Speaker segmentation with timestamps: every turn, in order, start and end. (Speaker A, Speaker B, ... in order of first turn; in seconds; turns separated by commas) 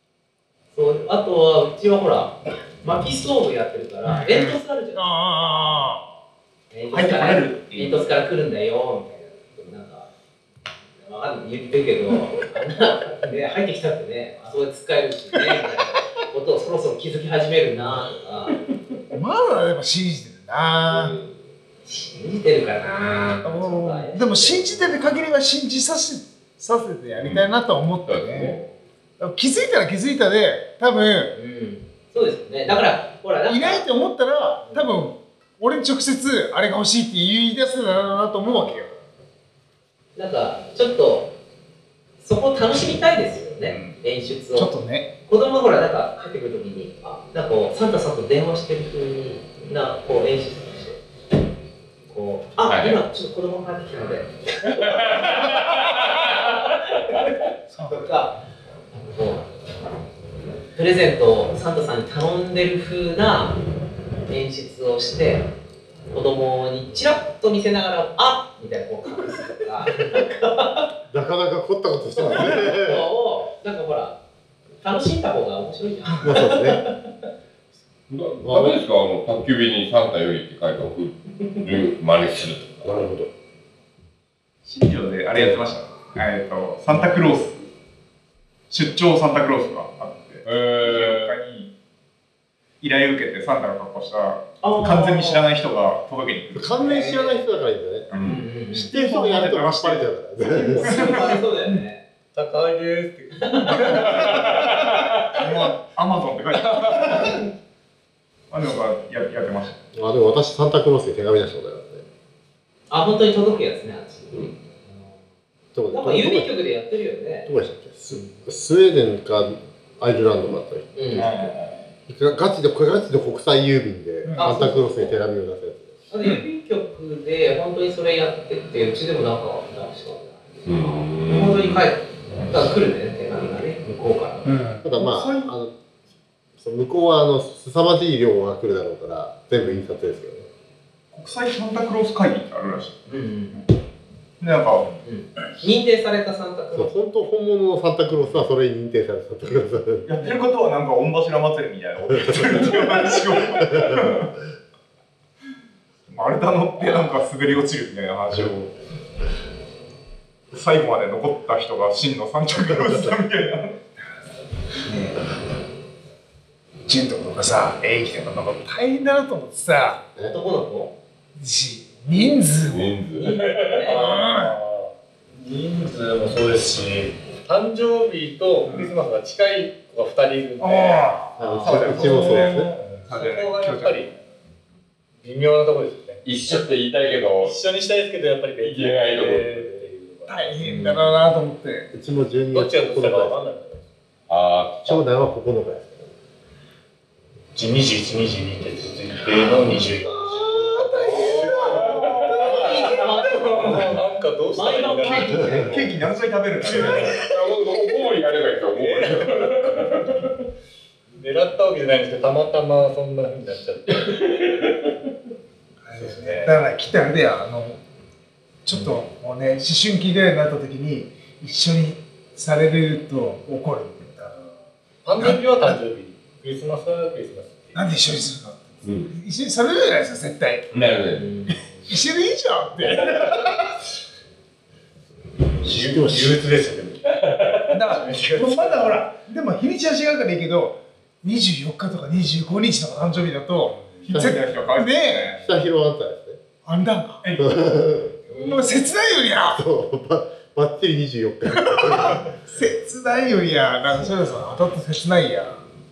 Speaker A: 0.7-6.0, Speaker B: 4.1-6.1, Speaker A: 6.7-10.1, Speaker C: 6.9-8.1, Speaker A: 11.0-18.6, Speaker B: 19.1-21.2, Speaker D: 20.9-21.4, Speaker A: 21.8-25.3, Speaker B: 23.4-28.6, Speaker D: 27.1-28.6, Speaker B: 29.2-31.3, Speaker A: 31.3-33.9, Speaker B: 33.5-39.0, Speaker A: 34.6-34.9, Speaker A: 40.1-41.3, Speaker A: 42.2-44.7, Speaker C: 43.6-43.9, Speaker B: 44.5-45.1, Speaker A: 45.2-51.0, Speaker A: 52.1-58.4, Speaker D: 52.6-53.0, Speaker D: 54.7-57.3, Speaker B: 57.7-58.1, Speaker A: 58.9-59.5, Speaker A: 60.7-63.6, Speaker A: 64.3-65.5, Speaker A: 66.1-70.9, Speaker E: 71.1-73.0, Speaker A: 72.2-74.2, Speaker A: 74.8-77.0, Speaker E: 76.2-76.8, Speaker D: 78.1-82.9, Speaker E: 78.4-78.8, Speaker E: 82.8-83.3, Speaker C: 84.7-87.7, Speaker C: 88.7-91.7, Speaker D: 90.4-91.4, Speaker C: 92.8-96.9, Speaker A: 94.6-95.5, Speaker E: 96.5-98.1, Speaker A: 96.8-97.5, Speaker C: 98.1-101.4, Speaker D: 98.1-98.4, Speaker A: 98.2-98.9, Speaker E: 98.7-101.2, Speaker A: 100.6-102.0, Speaker F: 102.3-104.9, Speaker A: 103.4-104.4, Speaker C: 103.6-104.2, Speaker D: 103.9-105.1, Speaker C: 105.3-107.4, Speaker C: 108.5-109.8, Speaker E: 109.9-112.0, Speaker A: 112.9-115.2, Speaker E: 115.7-116.5, Speaker A: 115.9-117.5, Speaker E: 117.5-121.5, Speaker A: 121.0-121.3, Speaker C: 121.2-121.8, Speaker E: 122.1-126.0, Speaker B: 124.2-124.6, Speaker A: 124.4-125.2, Speaker A: 126.1-130.4, Speaker D: 130.7-131.9, Speaker A: 131.2-134.5, Speaker B: 134.4-134.9, Speaker E: 134.8-135.7, Speaker C: 134.9-135.5, Speaker E: 136.6-140.5, Speaker C: 141.1-143.7, Speaker A: 143.1-143.6, Speaker C: 144.4-144.9, Speaker A: 145.0-147.0, Speaker E: 146.7-150.1, Speaker C: 150.1-154.4, Speaker E: 152.1-154.1, Speaker C: 156.1-158.7, Speaker E: 158.3-158.7, Speaker C: 160.5-163.8, Speaker B: 164.8-165.2, Speaker B: 166.9-170.0, Speaker A: 170.2-170.9, Speaker B: 171.4-172.9, Speaker D: 172.7-174.0, Speaker A: 173.1-174.0, Speaker F: 173.8-182.3, Speaker B: 173.9-174.5, Speaker C: 178.7-178.9, Speaker B: 180.6-181.3, Speaker E: 181.4-182.7, Speaker C: 181.4-184.1, Speaker B: 182.0-182.5, Speaker F: 182.9-184.1, Speaker F: 185.2-186.2, Speaker D: 186.2-187.6, Speaker F: 187.4-190.8, Speaker D: 188.6-189.5, Speaker B: 190.3-191.9, Speaker E: 190.7-191.1, Speaker E: 191.9-193.4, Speaker F: 192.5-193.8, Speaker D: 194.3-195.1, Speaker E: 194.8-196.1, Speaker F: 197.5-202.2, Speaker B: 200.2-202.2, Speaker D: 201.9-202.8, Speaker A: 202.2-205.9, Speaker F: 203.3-205.7, Speaker C: 203.6-203.8, Speaker C: 205.1-207.3, Speaker E: 205.3-205.7, Speaker D: 206.6-210.4, Speaker F: 208.7-209.7, Speaker F: 211.1-214.2, Speaker D: 213.9-215.1, Speaker B: 215.9-217.8, Speaker F: 215.9-216.6, Speaker B: 218.7-224.5, Speaker F: 225.0-228.0, Speaker B: 225.2-225.4, Speaker B: 227.7-230.7, Speaker D: 228.8-229.1, Speaker D: 230.7-231.5, Speaker A: 231.2-231.5, Speaker B: 231.8-233.1, Speaker F: 233.0-233.4, Speaker D: 233.1-233.5, Speaker F: 235.5-239.0, Speaker E: 235.6-236.4, Speaker D: 237.2-237.7, Speaker B: 237.7-245.3, Speaker C: 244.0-245.6, Speaker E: 244.1-244.4, Speaker E: 245.4-246.4, Speaker B: 246.7-247.2, Speaker C: 247.2-247.5, Speaker E: 247.4-248.2, Speaker A: 248.3-248.9, Speaker B: 248.3-249.6, Speaker E: 249.5-252.3, Speaker B: 251.5-255.6